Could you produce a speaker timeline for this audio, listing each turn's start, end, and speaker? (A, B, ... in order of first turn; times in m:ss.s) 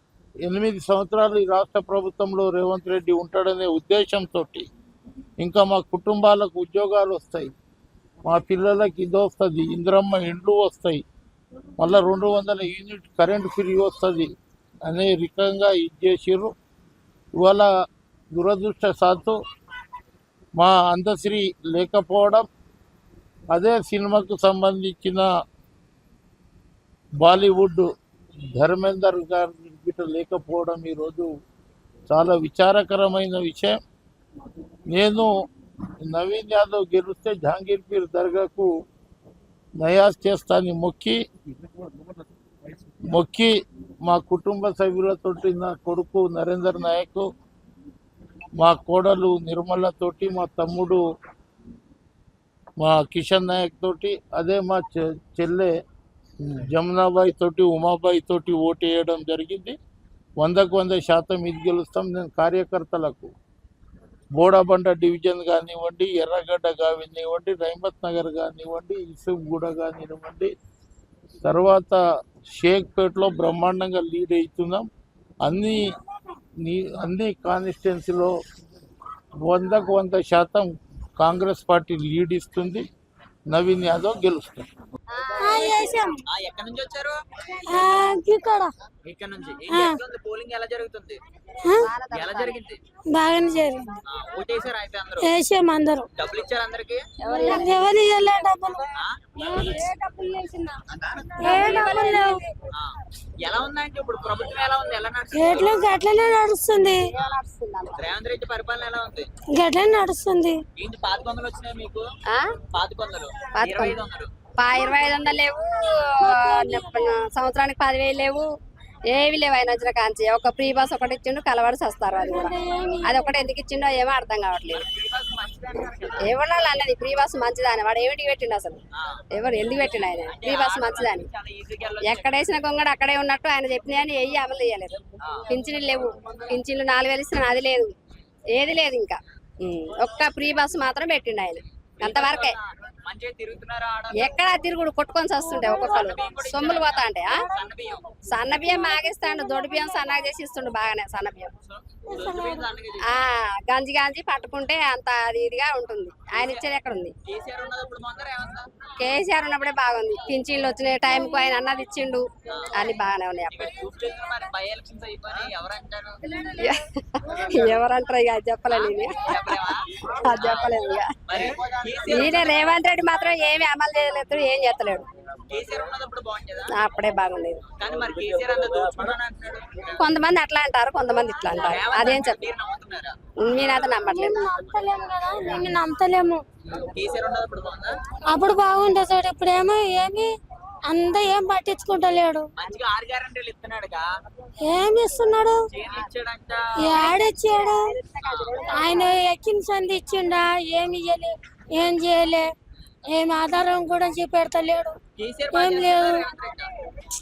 0:00.4-0:04.7 A
0:05.4-0:07.5 A
0:08.3-0:11.0 A
0:11.8-0:14.3 A
0:14.8-0:16.5 A
0:17.4-0:17.7 A
0:18.3-0:19.4 A
0:20.6-0:22.4 A
0:23.5-0:25.2 A
0:27.2-0:27.9 A
0:28.6-0:31.3 A
0:32.1-0:33.8 A
0:34.9-0:35.3 A
0:36.0-0:38.7 A
0:39.8-0:41.2 A
0:43.1-0:43.5 A
0:44.0-0:47.2 A
0:48.6-0:51.0 A
0:52.8-0:55.7 A
0:56.6-0:59.7 A
1:00.4-1:03.3 A
1:04.4-1:10.5 A
1:11.4-1:12.0 A
1:12.6-1:14.8 A
1:15.4-1:15.8 A
1:16.6-1:18.3 A
1:19.4-1:20.7 A
1:21.2-1:22.8 A
1:23.5-1:24.6 A
1:25.1-1:26.1 B
1:25.4-1:26.2 C
1:26.3-1:27.2 D
1:27.6-1:28.7 C
1:29.0-1:31.2 D
1:29.7-1:30.0 C
1:31.6-1:31.9 C
1:31.8-1:32.5 B
1:32.1-1:32.8 D
1:33.1-1:33.9 C
1:34.1-1:35.3 D
1:35.2-1:36.1 C
1:36.1-1:37.0 D
1:37.2-1:37.7 B
1:37.2-1:38.8 C
1:39.4-1:40.8 C
1:41.4-1:42.5 C
1:41.4-1:42.4 B
1:42.7-1:45.8 D
1:45.3-1:47.0 C
1:47.2-1:48.0 B
1:48.0-1:49.2 D
1:49.6-1:50.6 C
1:50.8-1:52.0 D
1:52.7-1:54.3 D
1:53.5-1:54.0 B
1:54.6-1:58.4 B
1:54.7-1:55.1 C
1:56.2-1:57.1 C
1:59.1-2:02.5 B
2:02.1-2:03.4 C
2:03.0-2:04.8 B
2:04.7-2:06.3 D
2:06.2-2:08.8 B
2:09.3-2:11.3 B
2:09.7-2:12.5 D
2:12.0-2:17.9 B
2:18.5-2:22.6 B
2:22.0-2:24.4 D
2:24.2-2:27.4 B
2:25.4-2:26.1 C
2:25.7-2:28.1 D
2:27.5-2:27.7 C
2:28.3-2:31.5 B
2:28.5-2:30.0 C
2:31.6-2:33.2 D
2:32.1-2:32.6 C
2:33.1-2:37.1 B
2:36.4-2:36.6 D
2:37.2-2:38.7 D
2:39.0-2:43.8 B
2:41.1-2:41.5 C
2:42.5-2:42.9 D
2:43.5-2:46.2 D
2:46.3-2:49.3 B
2:48.7-2:50.7 D
2:50.0-2:51.1 B
2:51.3-2:52.7 D
2:52.1-2:55.0 B
2:55.5-2:56.7 D
2:56.7-2:57.6 B
2:57.8-3:00.1 D
3:00.0-3:02.4 B
3:01.5-3:04.0 D
3:03.4-3:04.4 B
3:04.0-3:06.4 C
3:04.5-3:04.8 D
3:06.6-3:07.9 D
3:08.3-3:10.3 C
3:10.9-3:12.4 C
3:12.6-3:14.0 D
3:14.7-3:15.6 C
3:15.7-3:17.1 D
3:16.8-3:18.0 C
3:18.0-3:19.1 B
3:18.2-3:18.6 D
3:18.7-3:22.5 C
3:23.1-3:25.0 C
3:25.2-3:26.7 D
3:25.5-3:26.2 C